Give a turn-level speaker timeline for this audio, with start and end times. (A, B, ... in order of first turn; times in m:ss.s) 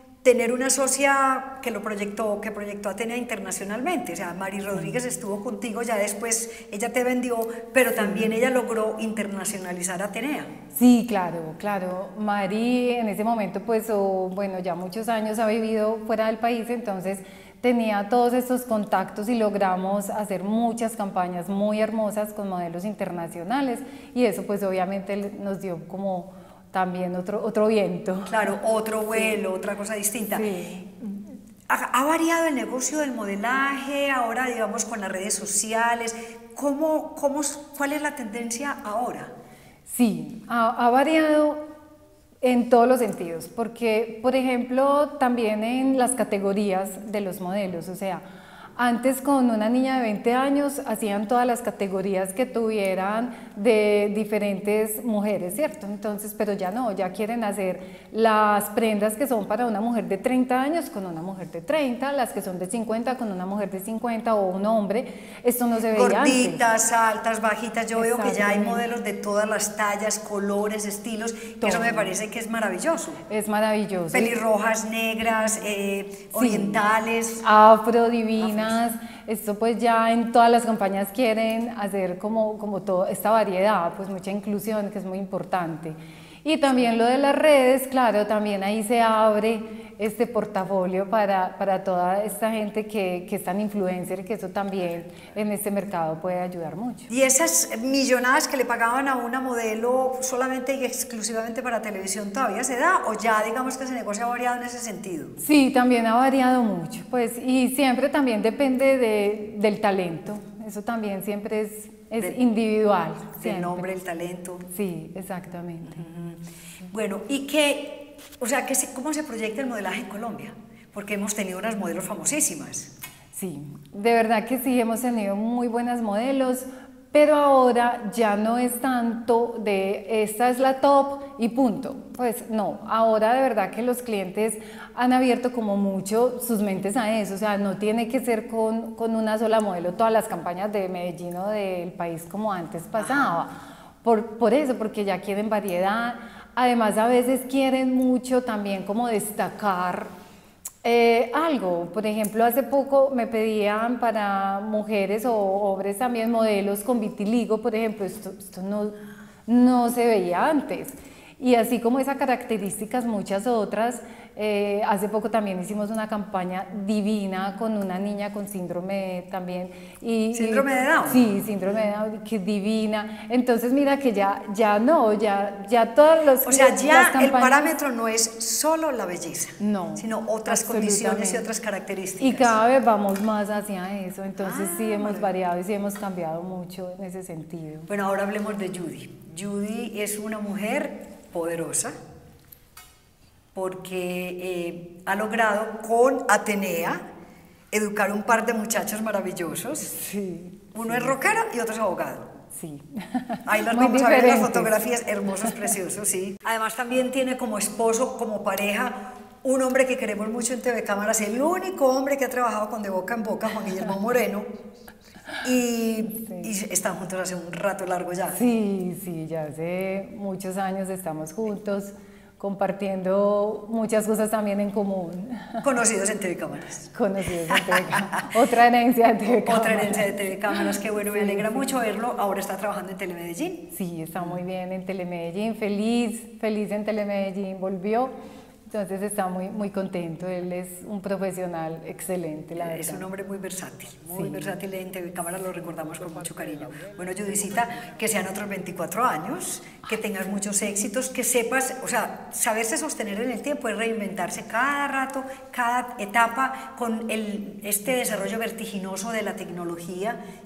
0:00.2-0:10.5 A
0:10.7-0:28.5 B
0:28.3-0:30.5 A
0:29.1-0:29.4 B
0:30.3-0:31.0 B
0:31.7-0:39.3 A
0:39.9-0:41.6 B
0:42.4-0:48.2 B
0:48.8-1:06.6 B
1:05.9-1:13.2 A
1:08.0-1:08.8 B
1:11.6-1:12.1 B
1:13.3-1:14.4 B
1:14.1-1:17.4 A
1:16.3-1:16.8 B
1:17.4-1:37.1 B
1:18.4-1:18.8 A
1:37.1-1:45.4 A
1:45.4-1:53.9 B
1:53.4-1:54.7 A
1:54.7-1:56.0 B
1:55.9-2:02.9 A
2:03.3-2:30.1 B
2:23.0-2:23.4 A
2:30.8-2:57.7 B
2:50.3-2:51.4 A
2:56.4-3:02.6 A
2:59.6-3:01.5 B
3:02.2-3:07.9 B
3:04.4-3:05.3 A
3:07.9-3:12.0 A
3:13.6-3:17.0 A
3:17.7-3:19.9 A
3:19.9-3:21.1 B
3:20.7-3:22.3 A
3:22.5-3:24.8 B
3:23.5-3:34.5 A
3:25.4-3:25.7 B
3:35.4-3:38.4 A
3:36.2-3:36.4 B
3:38.3-3:45.6 B
3:45.6-3:46.9 A
3:46.9-3:51.7 B
3:47.5-3:48.1 A
3:49.4-3:53.7 A
3:53.7-3:58.1 B
3:58.7-4:03.1 B
4:02.6-4:20.2 A
4:04.1-4:04.5 B